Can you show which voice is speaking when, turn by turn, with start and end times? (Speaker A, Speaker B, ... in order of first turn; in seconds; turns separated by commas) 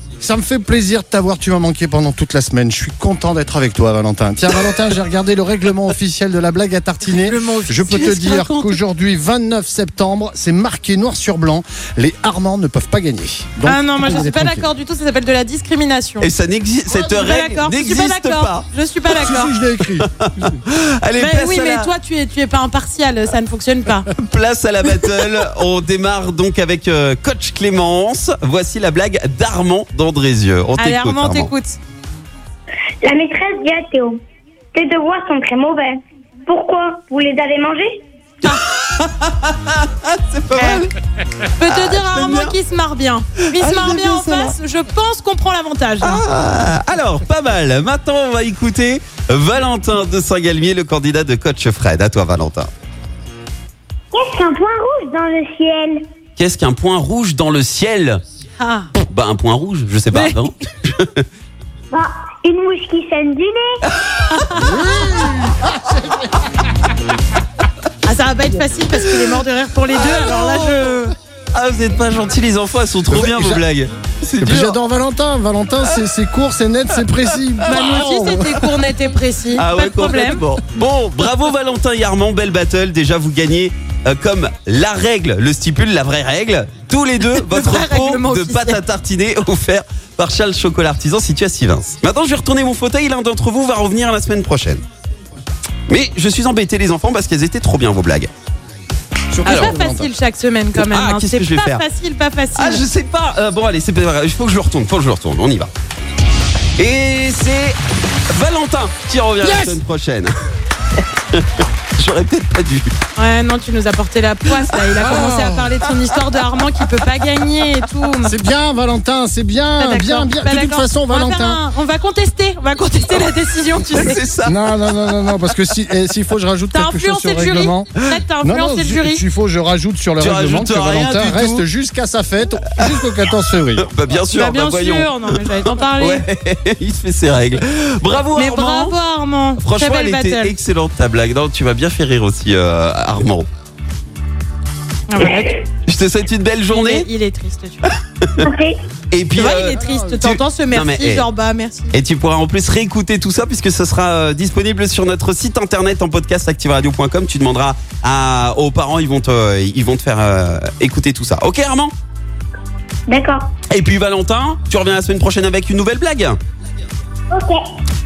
Speaker A: 0.2-14.7, Speaker B: 7.2-8.2, Speaker C: 7.9-8.8, Speaker B: 13.7-16.3, Speaker C: 16.2-18.7, Speaker B: 16.9-19.6, Speaker A: 19.1-20.6, Speaker C: 19.9-21.9, Speaker B: 21.2-24.1, Speaker C: 24.2-31.5, Speaker B: 30.8-31.8, Speaker D: 33.0-34.2, Speaker D: 34.7-38.0, Speaker C: 38.4-40.9, Speaker B: 40.5-40.9, Speaker B: 41.6-46.2, Speaker C: 41.6-42.6, Speaker C: 43.5-44.6, Speaker C: 46.0-52.7, Speaker D: 54.1-56.0, Speaker C: 56.4-58.2, Speaker B: 58.6-58.9, Speaker C: 59.0-61.2, Speaker B: 60.1-60.5, Speaker D: 61.9-63.7, Speaker C: 64.1-64.8, Speaker B: 64.3-64.7, Speaker A: 64.5-66.4, Speaker B: 68.0-71.1, Speaker C: 69.9-74.8, Speaker A: 73.1-73.6, Speaker A: 74.4-78.7, Speaker C: 77.2-78.8, Speaker B: 77.7-80.4, Speaker C: 79.5-94.8, Speaker B: 87.2-88.8, Speaker C: 95.9-98.3, Speaker A: 99.3-100.1, Speaker C: 99.5-99.8, Speaker B: 99.5-102.8, Speaker C: 100.8-101.8, Speaker C: 102.6-105.7, Speaker C: 106.8-107.8, Speaker C: 108.3-110.3, Speaker A: 109.4-109.8, Speaker C: 111.0-112.9, Speaker B: 113.2-118.3, Speaker C: 114.7-115.0, Speaker A: 115.0-115.8, Speaker A: 118.2-121.6, Speaker B: 119.8-124.2, Speaker C: 123.9-125.6, Speaker A: 124.4-133.9, Speaker B: 126.7-129.2, Speaker C: 130.2-131.6, Speaker C: 133.8-139.0, Speaker B: 134.3-136.3, Speaker B: 138.3-140.6, Speaker C: 139.6-143.5, Speaker B: 145.1-145.7, Speaker C: 145.9-147.1, Speaker B: 146.7-147.9, Speaker C: 147.9-148.5, Speaker D: 148.4-148.8, Speaker C: 149.1-151.3, Speaker B: 149.3-151.9, Speaker A: 149.6-150.3, Speaker C: 151.9-161.9, Speaker D: 163.1-163.5, Speaker C: 163.7-166.4, Speaker D: 167.3-167.6